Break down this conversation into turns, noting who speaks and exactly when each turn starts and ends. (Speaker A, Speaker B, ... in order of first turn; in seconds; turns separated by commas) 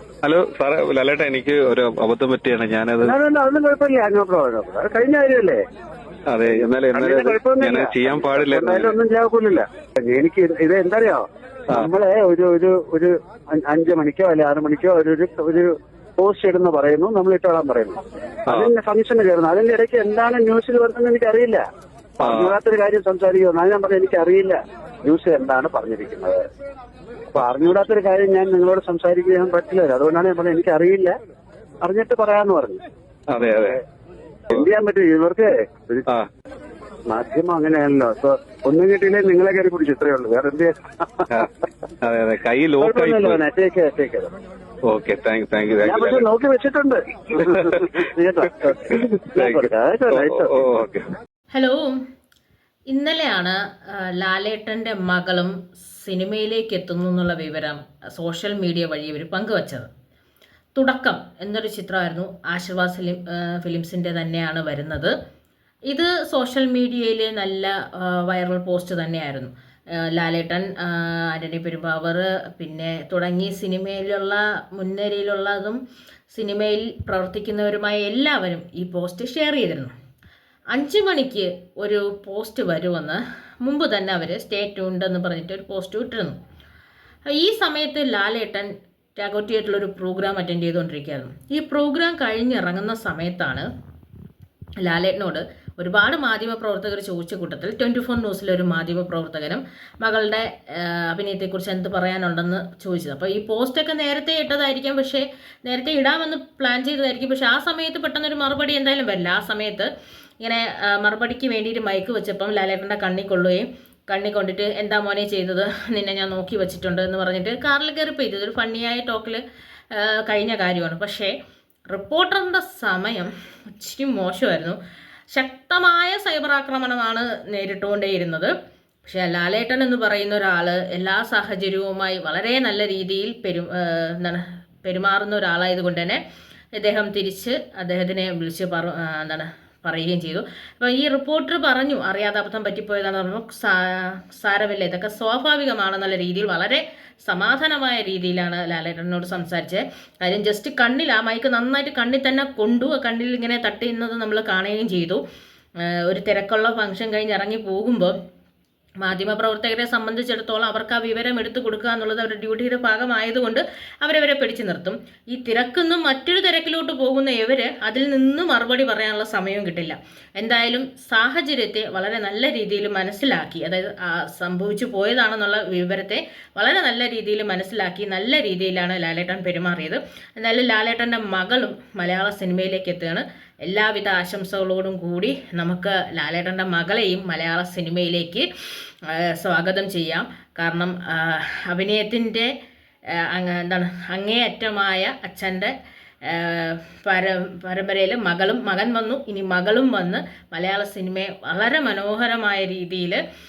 Speaker A: 0.2-3.1, Speaker B: 3.0-5.6, Speaker A: 6.3-9.0, Speaker B: 6.5-21.6, Speaker A: 18.5-18.7, Speaker B: 22.2-26.4, Speaker A: 22.2-22.5, Speaker B: 27.3-31.1, Speaker B: 31.8-32.8, Speaker A: 33.3-33.8, Speaker B: 34.5-36.0, Speaker B: 37.1-41.5, Speaker A: 42.0-43.4, Speaker B: 42.8-44.3, Speaker A: 44.9-46.3, Speaker B: 45.8-50.5, Speaker A: 47.4-47.7, Speaker A: 48.9-51.1, Speaker C: 51.5-52.0, Speaker C: 52.9-59.9, Speaker C: 60.8-65.1, Speaker C: 65.9-79.9, Speaker C: 80.7-86.4, Speaker C: 87.3-93.7, Speaker C: 94.8-109.9, Speaker C: 110.4-121.3, Speaker C: 121.9-124.8, Speaker C: 125.3-128.5, Speaker C: 129.1-136.2, Speaker C: 136.8-155.2, Speaker C: 155.8-158.1, Speaker C: 159.0-188.5, Speaker C: 189.1-192.5, Speaker C: 193.2-195.7, Speaker C: 196.3-203.2